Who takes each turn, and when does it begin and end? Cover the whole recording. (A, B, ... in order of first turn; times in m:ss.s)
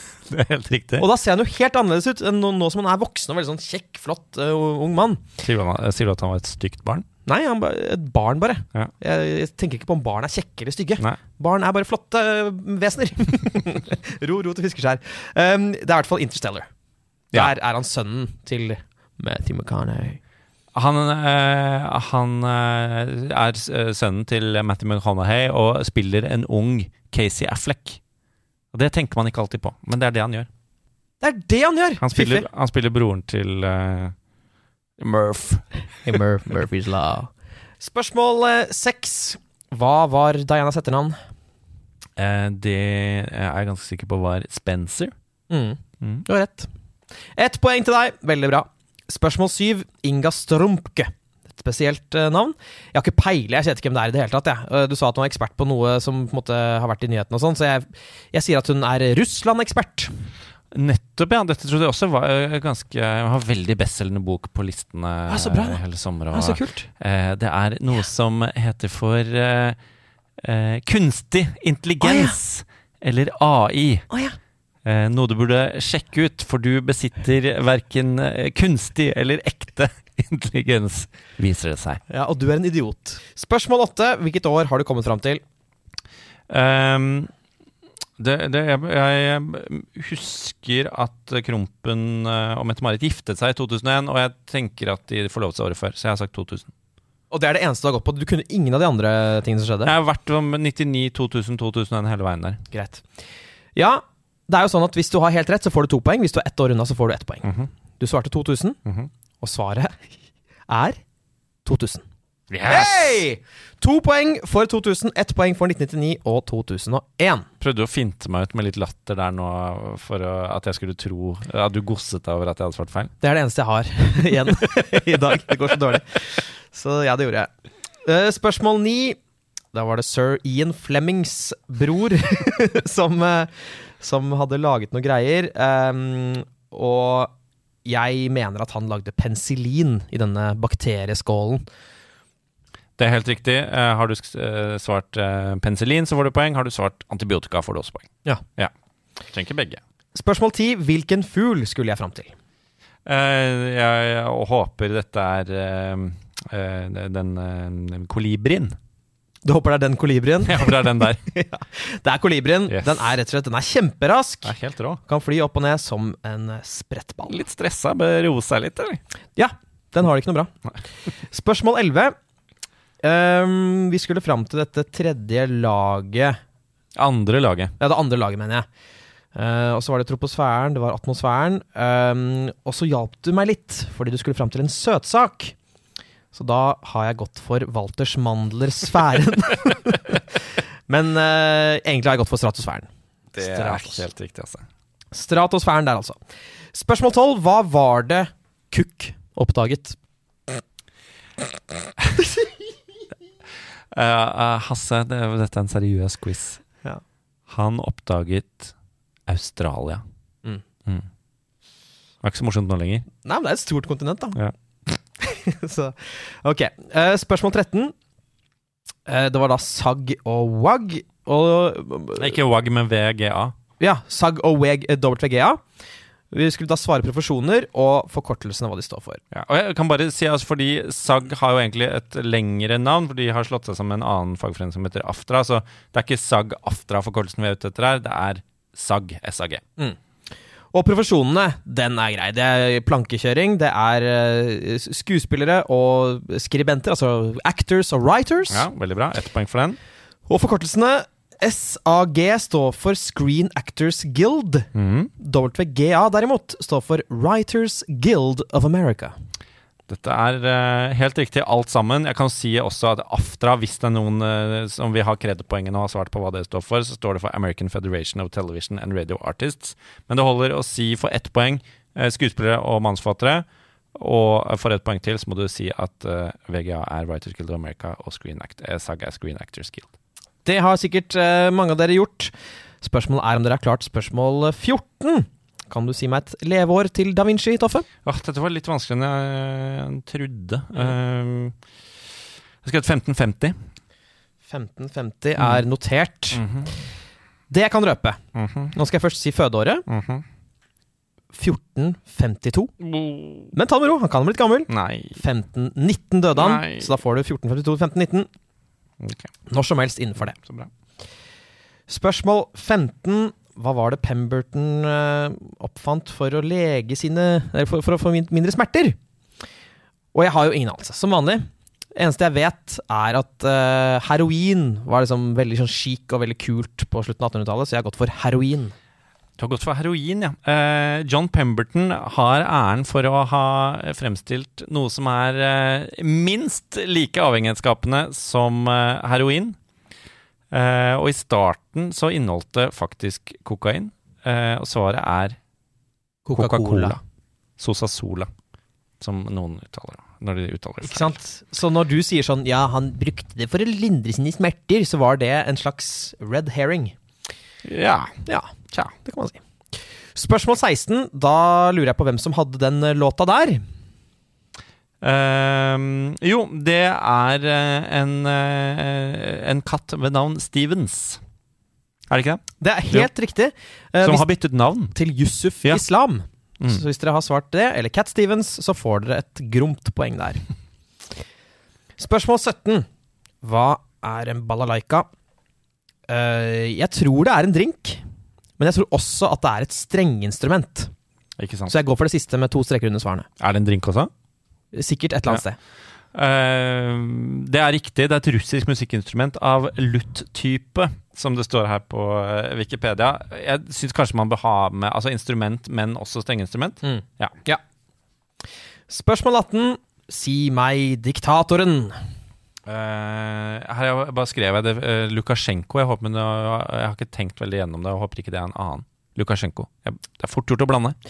0:00.3-0:01.1 A
0:01.0-0:05.2 B
0:05.4-0:07.0 A
0:07.2-0:16.7 B
0:17.3-0:20.2 B
0:20.7-0:28.0 A
0:28.7-0:30.5 A
0:31.2-0:32.4 B
0:32.0-0:34.1 A
0:35.0-0:36.2 A
0:36.0-0:41.2 B
0:42.2-0:45.1 A
0:45.5-0:46.7 B
0:47.4-1:00.1 B
1:00.7-1:09.8 A
1:05.3-1:05.8 B
1:06.3-1:06.9 B
1:10.4-1:14.0 A
1:12.0-1:12.4 B
1:14.1-1:14.4 B
1:14.8-1:22.0 A
1:22.1-1:25.4 B
1:26.5-1:27.3 A
1:28.2-1:36.7 A
1:37.3-1:39.9 B
1:39.8-1:42.6 A
1:42.7-1:43.0 B
1:43.8-1:48.8 B
1:47.4-1:47.7 A
1:49.4-1:50.0 B
1:50.7-1:51.0 B
1:51.6-1:52.0 B
1:52.5-1:53.0 A
1:52.6-1:57.5 B
1:57.6-2:03.1 A
2:03.2-2:07.5 B
2:08.0-2:09.2 B
2:09.7-2:17.3 B
2:17.8-2:21.6 B
2:23.0-2:28.7 A
2:29.3-2:29.8 A
2:30.1-2:32.3 B
2:33.0-2:38.8 A
2:39.4-2:44.5 B
2:40.4-2:41.2 A
2:42.7-2:43.2 A
2:44.4-2:45.0 A
2:45.0-2:47.4 B
2:47.3-2:49.0 A
2:49.4-2:50.5 B
2:51.1-2:52.1 B
2:53.0-2:56.4 B
2:56.9-2:57.7 A
2:57.8-2:58.6 B
2:59.3-3:05.5 B
3:06.3-3:14.0 B
3:13.3-3:14.6 A
3:15.1-3:16.2 B
3:16.7-3:20.0 B
3:23.9-3:26.6 A
3:27.5-3:28.7 A
3:29.3-3:30.0 A
3:32.2-3:33.1 A
3:33.2-3:34.4 B
3:35.2-3:37.9 B
3:39.0-3:42.4 B
3:42.2-3:43.5 A
3:43.8-3:45.6 B
3:46.3-3:49.2 B
3:49.3-3:59.6 A
4:00.7-4:08.7 B
4:08.5-4:09.8 A
4:10.3-4:19.2 B
4:14.7-4:15.1 A
4:19.9-4:39.9 A
4:40.4-4:47.9 B
4:48.0-4:51.5 A
4:52.6-4:53.6 A
4:54.5-4:56.4 B
4:55.4-4:55.6 A
4:56.3-4:56.7 A
4:57.5-4:58.2 B
4:58.3-4:58.7 A
4:58.7-4:59.9 B
4:59.9-5:00.2 A
5:01.3-5:02.7 B
5:02.8-5:03.5 A
5:03.5-5:08.3 B
5:04.7-5:05.2 A
5:06.3-5:06.9 A
5:09.0-5:09.3 A
5:09.5-5:10.4 B
5:10.3-5:10.7 A
5:11.9-5:19.0 B
5:20.1-5:28.7 B
5:29.4-5:39.6 A
5:40.5-5:45.4 A
5:46.2-5:47.0 B
5:46.3-5:47.0 A
5:47.6-5:48.3 A
5:49.0-5:51.2 A
5:50.8-5:57.0 B
5:57.6-5:58.2 A
5:58.3-5:59.4 B
6:00.1-6:03.6 B
6:05.0-6:11.2 A
6:12.1-6:13.1 A
6:12.6-6:14.2 B
6:14.0-6:14.9 A
6:14.9-6:20.4 B
6:22.0-6:22.8 B
6:23.4-6:25.1 B
6:26.1-6:28.0 B
6:28.6-6:30.9 B
6:31.4-6:31.7 A
6:31.7-6:33.3 B
6:33.4-6:34.1 A
6:34.7-6:35.6 B
6:36.1-6:47.3 A
6:46.8-6:47.6 B
6:48.9-6:52.0 B
6:52.6-7:01.0 A